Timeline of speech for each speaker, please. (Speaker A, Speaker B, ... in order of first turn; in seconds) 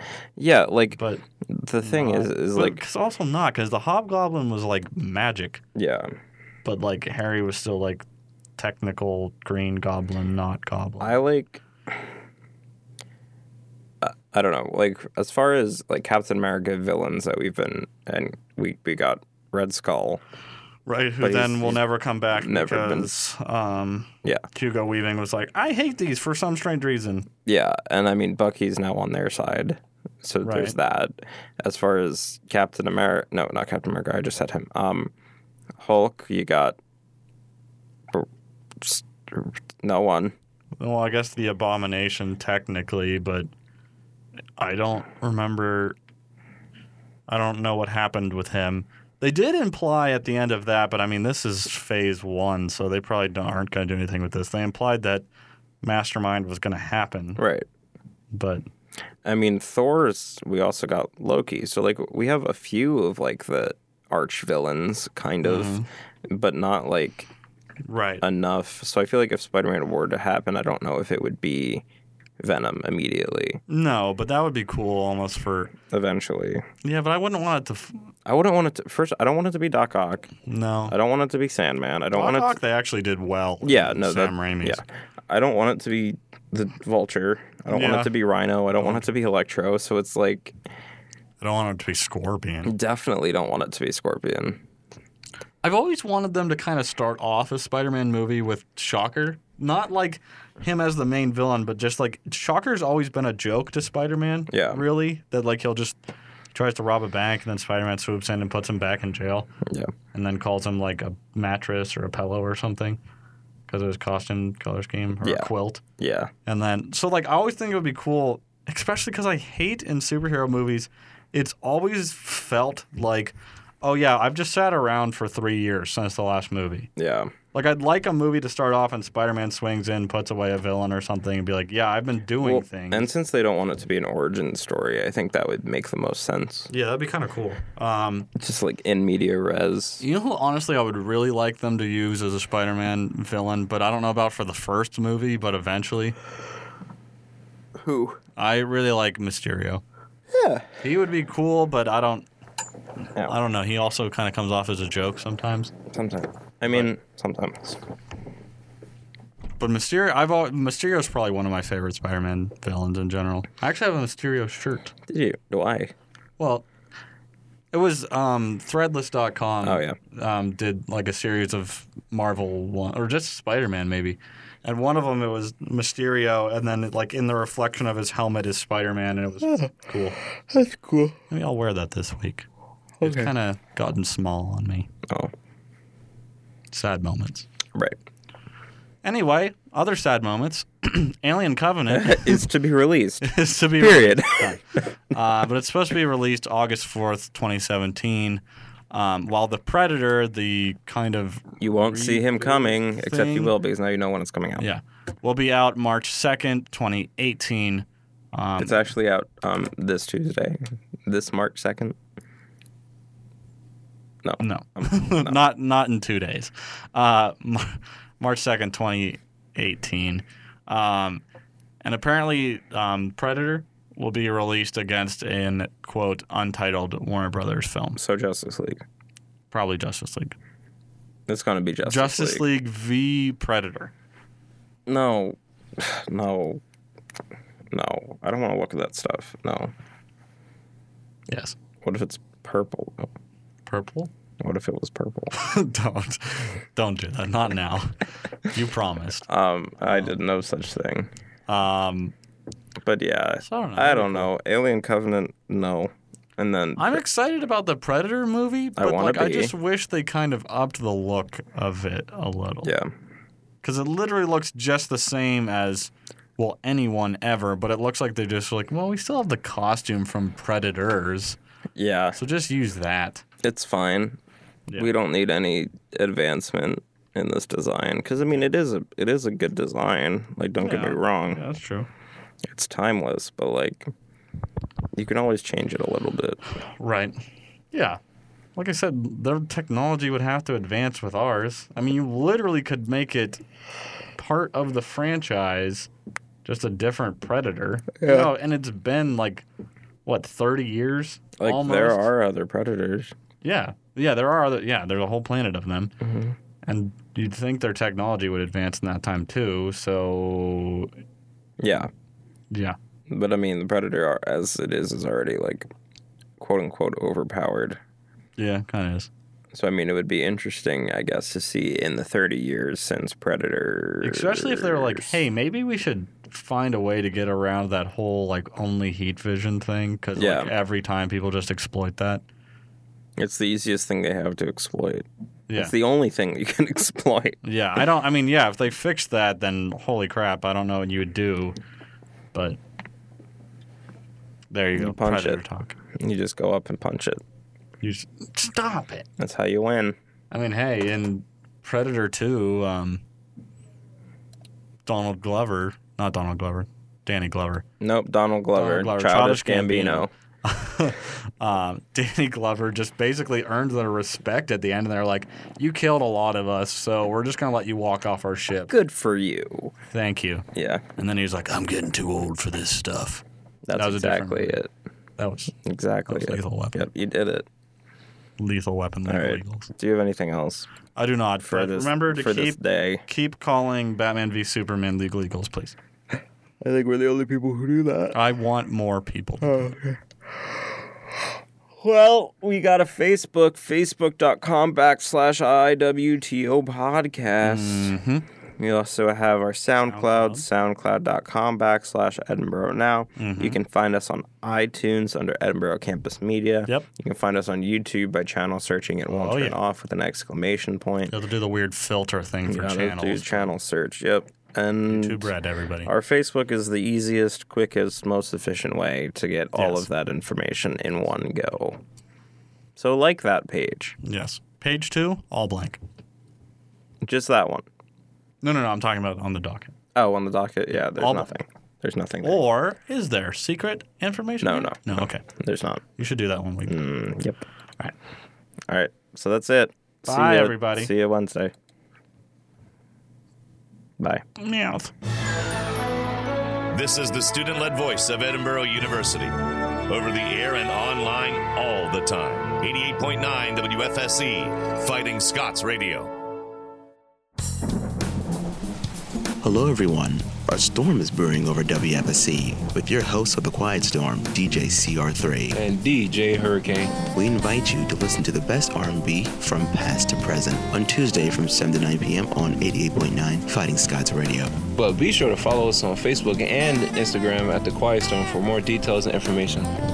Speaker A: 0.3-2.8, 5.7-6.1, 11.0-11.6, 14.0-20.2, 21.2-23.1, 27.4-35.1, 35.8-36.8, 38.8-40.3, 57.4-57.7, 59.2-67.3, 68.2-71.8, 72.4-73.6, 75.9-76.6, 78.2-80.3, 80.9-82.6, 83.6-90.5, 92.6-94.6, 104.5-104.8, 109.7-109.9, 115.2-116.3, 127.0-127.3, 132.4-136.7, 138.3-140.0, 147.8-148.2, 150.3-150.7, 155.9-157.8, 165.1-165.9, 169.6-170.0, 180.5-181.2, 183.0-183.3, 191.9-194.6, 201.6-204.7, 208.6-212.0, 214.2-215.4, 228.0-228.8, 231.3-232.5, 234.8-236.6, 237.7-239.7, 241.8-243.1, 244.4-245.3, 249.2-251.1, 252.8-257.0, 258.8-259.5, 262.6-262.9, 271.8-272.2, 273.4-274.2, 274.7-281.4, 282.4-283.9, 284.9-286.4, 298.0-298.3, 301.4-303.1, 306.0-306.3, 311.6-311.9, 313.1-315.7, 316.4-317.8, 319.5-325.2, 330.2-330.5, 333.2-337.4, 344.8-345.4, 345.9-347.2, 349.2-350.0, 357.8-360.1, 368.7-369.7, 370.5-370.8, 373.6-374.7, 375.6-377.5, 379.1-380.7, 381.4-383.0, 386.6-388.2, 389.4-390.0, 391.8-397.9, 398.6-411.1, 412.5-421.8, 422.8-424.0, 427.0-427.6, 429.9-432.4, 434.4-435.8, 436.6-437.4, 438.7-441.5, 444.0-444.2
Speaker B: 0.9-1.2, 1.8-5.6, 6.6-8.0, 8.6-11.2, 20.9-27.3, 30.4-30.8, 40.8-43.5, 44.6-46.0, 47.3-55.2, 55.8-57.4, 58.3-58.6, 65.4-65.9, 67.8-68.2, 73.7-75.7, 76.8-78.1, 80.5-81.0, 82.1-84.8, 87.7-88.1, 88.8-89.0, 91.4-92.7, 95.6-106.0, 106.5-109.5, 110.1-113.0, 113.7-115.8, 116.5-126.9, 127.5-133.1, 136.7-138.3, 140.0-146.2, 148.3-149.8, 150.8-152.2, 153.2-155.7, 156.7-156.9, 159.6-164.9, 166.4-166.7, 167.7-180.2, 181.3-182.4, 183.0-184.9, 186.7-187.4, 189.0-192.4, 193.2-203.5, 204.6-208.8, 214.4-221.2, 221.8-228.0, 229.5-230.3, 231.8-233.9, 241.3-241.6, 243.7-244.1, 245.3-249.2, 249.8-250.2, 251.5-252.1, 253.4-254.3, 256.8-262.7, 263.6-271.4, 272.1-273.2, 280.6-281.9, 286.8-287.2, 287.7-288.0, 288.6-293.4, 294.1-295.9, 296.4-299.4, 300.1-302.1, 303.4-305.9, 306.6-310.9, 312.5-312.8, 318.4-319.1, 324.0-332.2, 335.5-335.7, 337.4-341.6, 344.5-345.7, 347.8-349.1, 350.3-353.0, 354.9-357.6, 358.5-368.7, 369.9-370.4, 371.0-373.2, 373.7-374.6, 375.2-376.8, 378.4-379.7, 380.9-385.8, 388.1-389.7, 397.4-398.2, 399.9-400.4, 403.2-403.6, 409.1-409.6, 411.1-413.5, 414.9-415.9, 419.5-419.9, 424.0-425.8, 428.4-429.7, 430.9-431.3, 432.2-435.2, 436.0-436.8, 440.0-440.9, 444.4-444.9
Speaker C: 446.7-449.4, 449.9-456.1
Speaker D: 459.4-465.6, 467.0-474.6
Speaker E: 465.5-467.0, 474.8-479.7